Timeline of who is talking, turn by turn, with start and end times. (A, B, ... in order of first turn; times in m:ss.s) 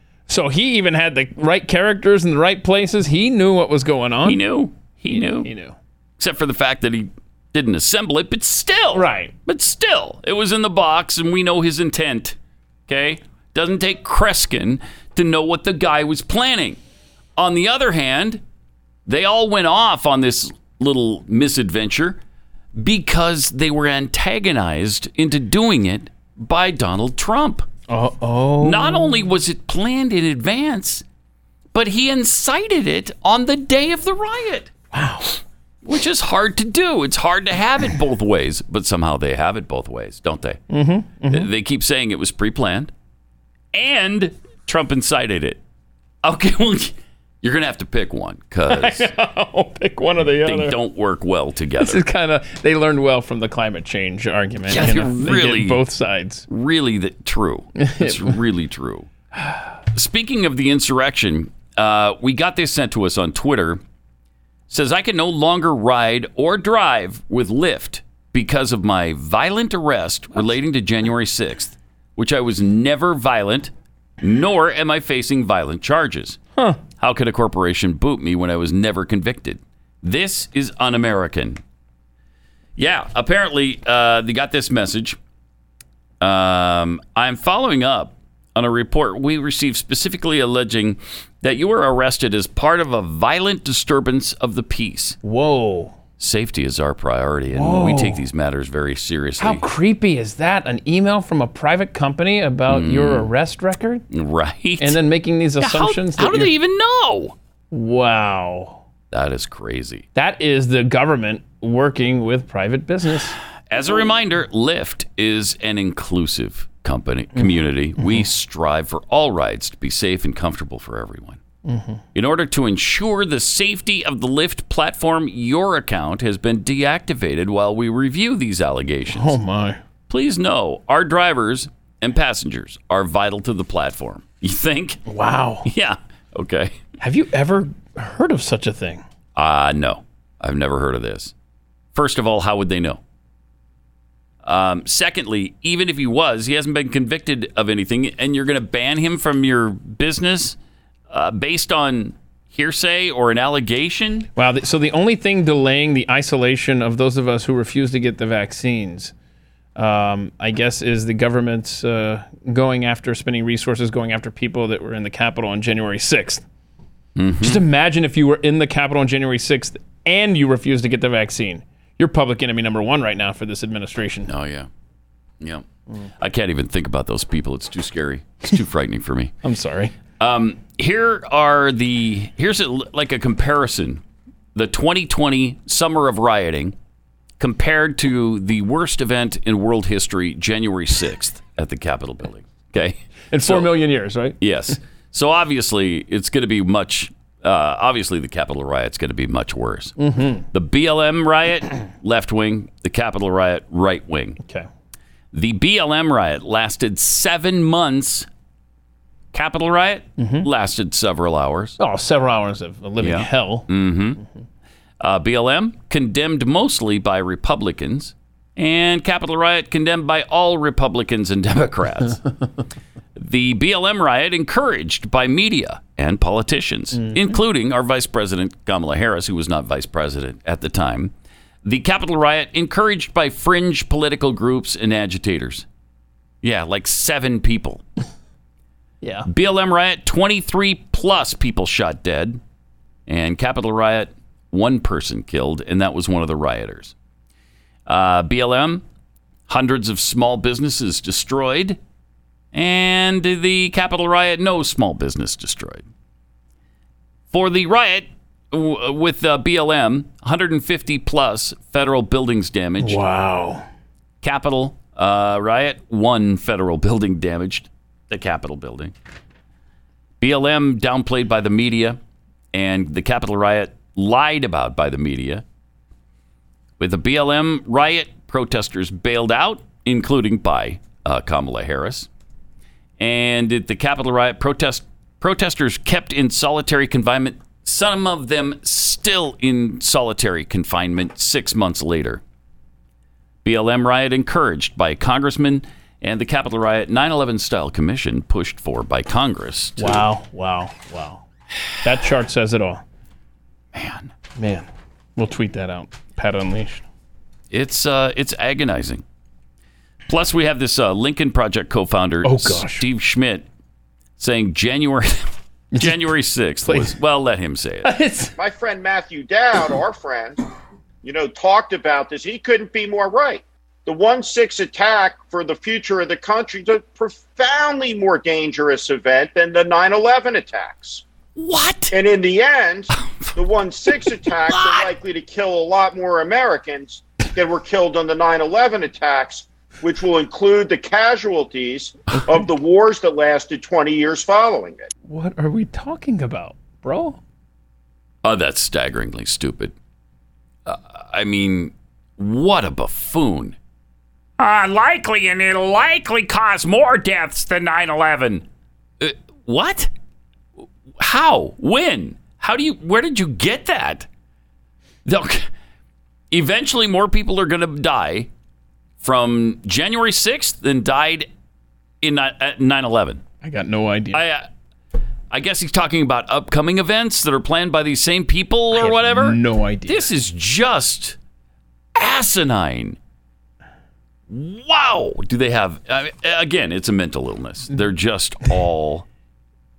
0:00.3-0:04.4 A
0:04.2-0:05.5 B
0:05.1-0:05.8 A
0:06.2-0:12.4 B
0:08.9-0:09.3 A
0:12.9-0:16.8 B
0:17.4-0:18.4 B
0:19.0-0:22.2 B
0:22.8-0:27.7 B
0:27.9-0:29.3 A
0:28.6-0:31.0 B
0:31.7-0:34.7 B
0:34.9-0:35.4 A
0:35.8-0:40.6 B
0:40.7-0:41.5 A
0:41.3-0:42.9 B
0:43.7-0:45.6 B
0:46.2-0:49.1 B
0:48.7-0:50.8 A
0:50.3-0:52.0 B
0:51.8-0:56.4 A
0:54.7-0:55.8 B
0:56.5-0:59.1 B
0:57.8-0:58.4 A
0:59.9-1:03.8 B
1:04.7-1:16.4 B
1:17.0-1:21.6 B
1:22.8-1:25.2 B
1:26.2-1:35.2 B
1:35.2-1:36.0 A
1:36.2-1:39.6 B
1:37.5-1:38.2 A
1:39.4-1:44.0 A
1:42.7-1:43.3 B
1:44.1-1:45.0 B
1:44.8-1:46.5 A
1:45.6-1:47.3 B
1:47.7-1:48.8 A
1:49.1-1:50.0 B
1:50.1-1:53.4 A
1:53.7-2:01.4 B
1:57.4-1:58.2 A
2:01.6-2:02.0 A
2:02.1-2:09.4 B
2:09.1-2:09.8 A
2:10.1-2:15.0 B
2:15.0-2:15.7 A
2:15.6-2:16.8 B
2:17.0-2:19.0 A
2:19.3-2:21.3 B
2:21.9-2:23.0 B
2:24.4-2:30.6 B
2:31.1-2:34.3 B
2:34.4-2:39.1 A
2:39.8-2:46.4 A
2:47.2-2:47.6 B
2:47.4-2:54.3 A
2:54.2-2:54.7 B
2:55.4-2:55.6 B
2:56.2-2:59.3 B
2:59.4-2:59.9 A
3:00.2-3:04.0 B
3:04.5-3:06.8 B
3:07.4-3:13.7 B
3:13.3-3:14.4 A
3:14.4-3:19.9 B
3:20.0-3:20.4 A
3:20.5-3:24.4 B
3:25.3-3:28.3 B
3:29.3-3:31.8 B
3:30.2-3:30.5 A
3:31.8-3:33.7 A
3:33.0-3:34.2 B
3:35.0-3:42.2 B
3:43.2-3:51.1 B
3:46.9-3:47.2 A
3:51.6-3:55.6 B
3:56.4-3:57.8 B
3:59.0-3:59.3 A
3:59.2-4:02.4 B
4:03.1-4:06.9 B
4:07.8-4:08.8 B
4:09.5-4:11.8 B
4:12.5-4:15.8 B
4:17.3-4:23.0 B
4:22.8-4:23.6 A
4:24.2-4:28.9 B
4:30.2-4:32.0 B
4:32.5-4:35.4 B
4:36.8-4:42.1 B
4:43.0-4:52.2 B
4:53.4-5:00.0 B
4:59.8-5:01.2 A
5:01.8-5:02.8 A
5:03.7-5:04.1 B
5:04.4-5:06.8 A
5:07.5-5:09.0 B
5:10.1-5:13.5 B
5:12.2-5:12.9 A
5:14.2-5:17.9 B
5:15.7-5:16.0 A
5:16.6-5:17.0 A
5:17.8-5:18.3 A
5:18.4-5:20.4 C
5:21.0-5:31.0 C
5:31.4-5:32.0 B
5:31.9-5:44.9 C
5:32.9-5:33.3 B
5:34.0-5:34.9 B
5:45.1-5:47.2 A
5:48.2-5:49.7 B
5:50.6-5:53.6 B
5:54.4-5:58.4 B
5:59.0-5:59.9 B
6:01.0-6:04.1 B
6:05.0-6:05.5 B
6:06.3-6:08.3 B
6:09.0-6:11.3 B
6:12.0-6:13.2 B
6:13.4-6:14.2 A
6:14.1-6:14.5 B
6:15.3-6:21.2 B
6:18.7-6:20.1 A
6:21.9-6:23.0 B
6:24.3-6:29.0 B